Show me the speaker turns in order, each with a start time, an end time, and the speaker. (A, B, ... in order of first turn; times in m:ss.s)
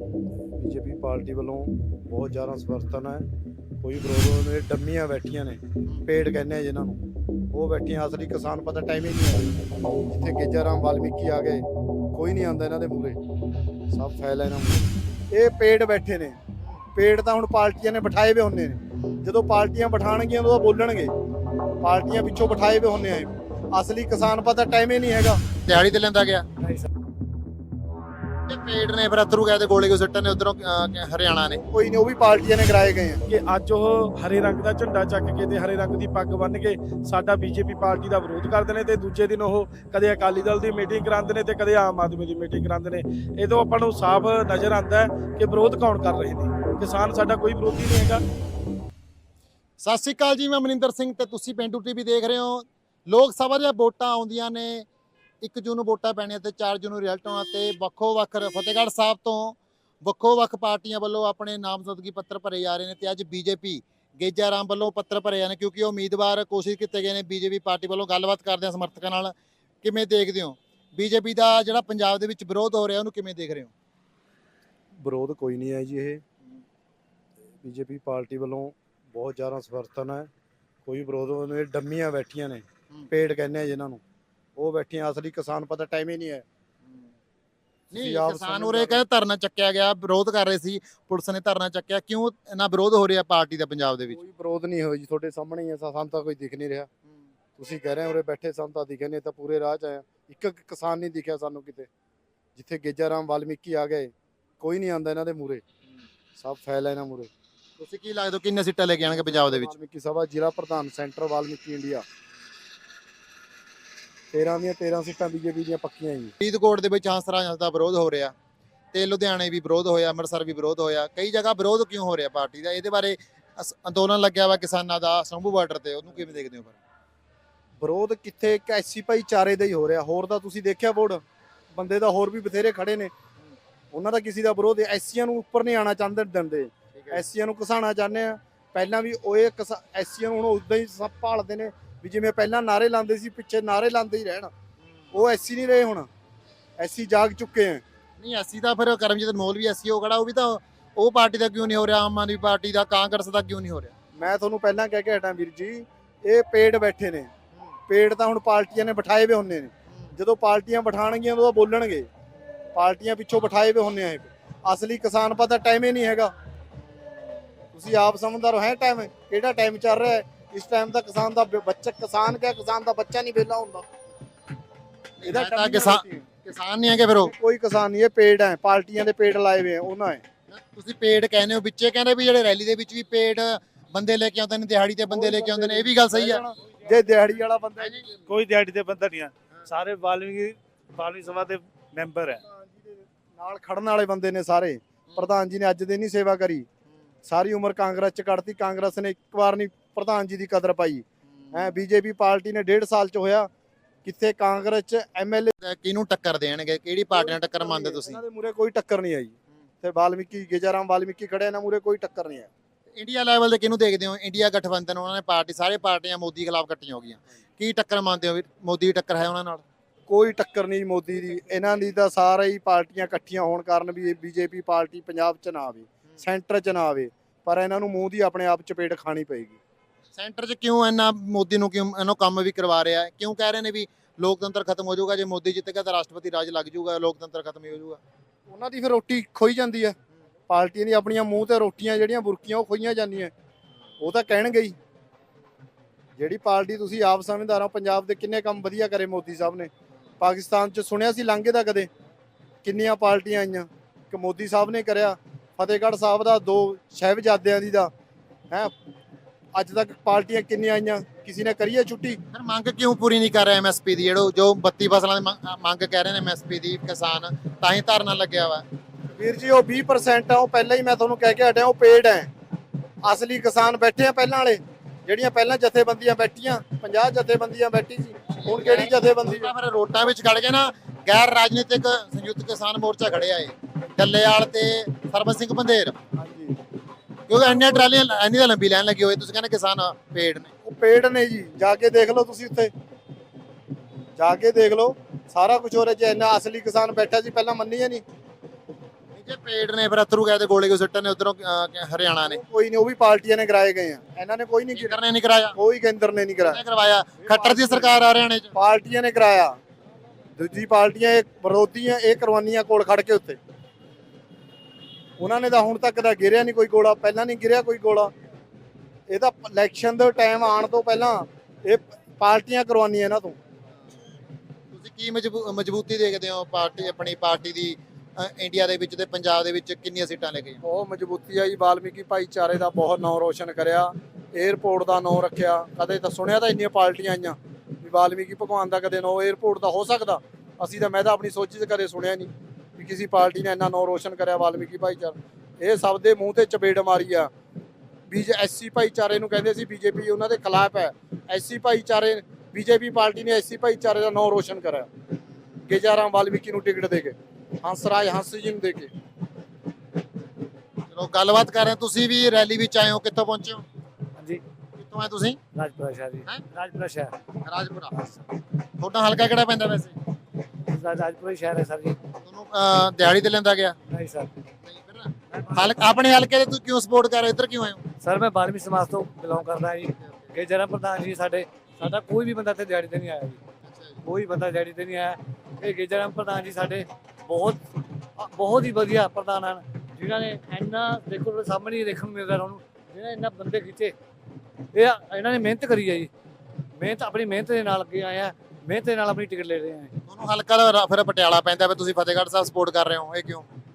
0:00.6-0:03.2 A
0:03.8-0:07.0 A
0:07.5-0:09.6 A
0:10.1-0:13.2 A
0:13.9-0:16.4 A
0:17.0-0:21.1 A
0:19.0-0:19.2 B
0:21.8-0:25.4 A
0:25.6-0:26.5 B
0:26.6-0:26.9 C
0:28.5-0:31.6 B
0:31.7-0:33.2 A
0:33.3-0:48.2 D
0:49.8-0:54.9 B
0:55.4-1:13.7 B
1:15.0-1:16.2 A
1:17.6-1:20.3 A
1:20.9-1:24.0 A
1:24.6-1:26.4 A
1:27.9-1:34.2 B
1:27.9-1:29.0 A
1:34.1-1:36.9 A
1:37.6-1:41.9 A
1:42.6-1:45.6 A
1:46.4-1:47.3 A
1:47.8-1:49.8 B
1:49.1-1:52.0 A
1:54.3-1:56.3 A
1:56.4-1:58.3 B
1:58.9-2:06.8 B
2:07.8-2:11.2 A
2:11.7-2:13.1 A
2:13.9-2:24.5 A
2:17.0-2:17.2 B
2:25.1-2:26.1 A
2:26.8-2:27.8 A
2:28.2-2:33.9 B
2:34.2-2:37.3 A
2:37.9-2:42.1 A
2:42.7-2:46.3 A
2:47.7-2:53.9 A
2:55.2-2:57.4 B
2:55.2-2:56.3 A
2:57.2-3:00.2 A
3:00.5-3:06.4 B
3:05.1-3:08.2 A
3:07.8-3:08.1 B
3:08.3-3:12.4 C
3:12.4-3:16.7 A
3:17.3-3:23.5 A
3:21.3-3:21.6 B
3:24.0-3:25.5 A
3:25.6-3:28.2 B
3:27.1-3:32.5 A
3:33.0-3:39.6 B
3:40.1-3:49.6 A
3:50.2-3:58.0 B
3:58.5-4:00.0 A
4:00.5-4:03.3 A
4:04.0-4:04.8 A
4:06.2-4:11.9 A
4:12.6-4:17.9 A
4:19.6-4:22.2 A
4:22.3-4:28.6 B
4:29.2-4:32.3 A
4:33.0-4:39.5 A
4:38.4-4:46.0 B
4:46.2-4:46.6 A
4:47.3-4:50.5 B
4:50.6-4:52.7 A
4:54.2-4:58.0 A
4:59.1-5:02.4 B
5:02.2-5:05.0 A
5:04.7-5:05.6 B
5:05.6-5:06.6 A
5:06.5-5:08.5 B
5:07.2-5:08.0 A
5:08.5-5:09.6 A
5:10.4-5:13.4 A
5:15.2-5:18.1 A
5:19.1-5:23.4 A
5:24.7-5:30.6 B
5:30.6-5:47.3 A
5:48.1-5:54.9 A
5:55.7-5:58.9 A
6:00.9-6:03.6 B
6:04.8-6:05.4 B
6:05.6-6:07.2 C
6:07.4-6:08.0 B
6:08.8-6:09.9 B
6:10.7-6:12.0 C
6:12.2-6:13.8 B
6:13.9-6:14.3 C
6:14.6-6:17.8 B
6:15.3-6:15.7 C
6:18.0-6:23.4 C
6:20.0-6:20.3 B
6:23.6-6:24.0 B
6:24.0-6:27.6 C
6:28.2-6:34.0 C
6:34.7-6:36.1 C
6:36.8-6:40.0 C
6:40.1-6:43.5 B